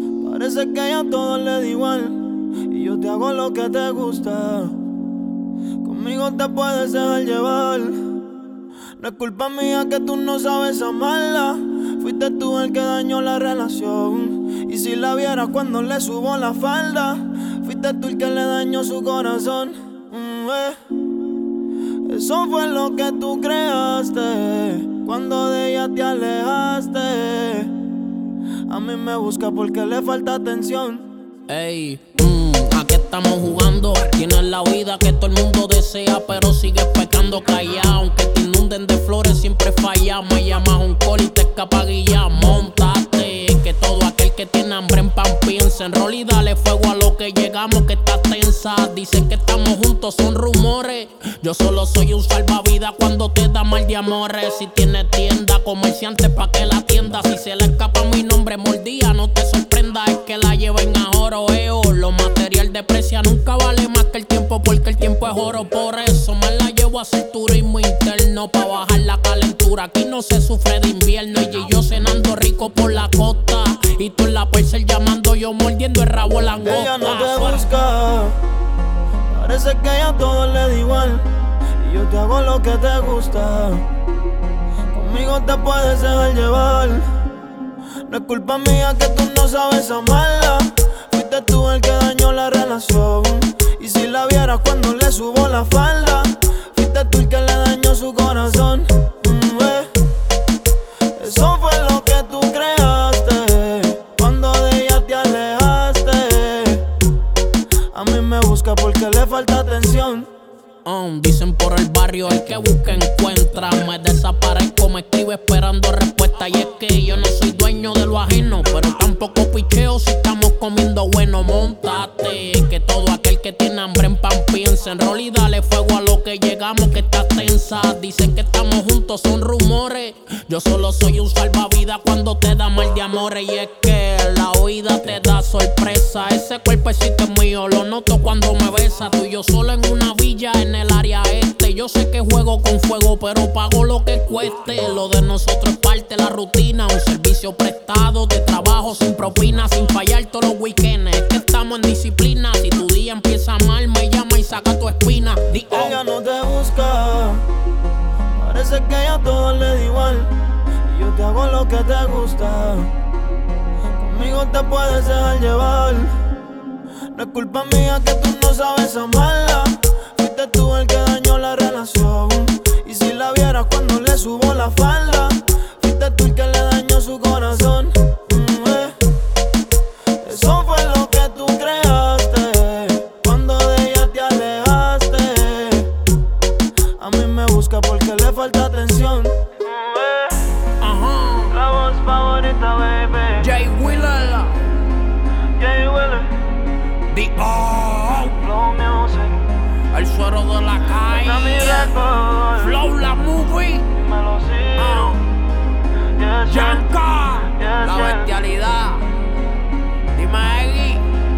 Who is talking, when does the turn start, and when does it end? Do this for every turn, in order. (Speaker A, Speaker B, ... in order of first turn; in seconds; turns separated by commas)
Speaker A: 0.2-4.8, Speaker A: 5.8-8.2, Speaker A: 9.0-20.8, Speaker A: 22.1-27.7, Speaker A: 28.7-31.1, Speaker B: 31.5-77.6, Speaker A: 76.6-78.4, Speaker A: 79.3-83.9, Speaker A: 84.9-87.1, Speaker A: 88.0-99.9, Speaker A: 101.1-106.9, Speaker A: 107.9-110.3, Speaker B: 110.8-156.0, Speaker A: 155.7-157.5, Speaker A: 158.3-162.9, Speaker A: 164.0-166.2, Speaker A: 167.1-179.0, Speaker A: 180.2-185.9, Speaker A: 187.0-190.6, Speaker B: 190.8-191.5, Speaker A: 191.5-193.5, Speaker B: 193.4-194.7, Speaker A: 195.5-196.3, Speaker B: 197.1-198.4, Speaker A: 198.3-199.4, Speaker B: 199.9-201.9, Speaker A: 201.0-202.7, Speaker B: 202.6-203.8, Speaker A: 203.9-205.2, Speaker B: 204.8-205.2, Speaker A: 206.0-206.9, Speaker B: 206.4-209.1, Speaker A: 207.4-208.3, Speaker B: 210.1-211.1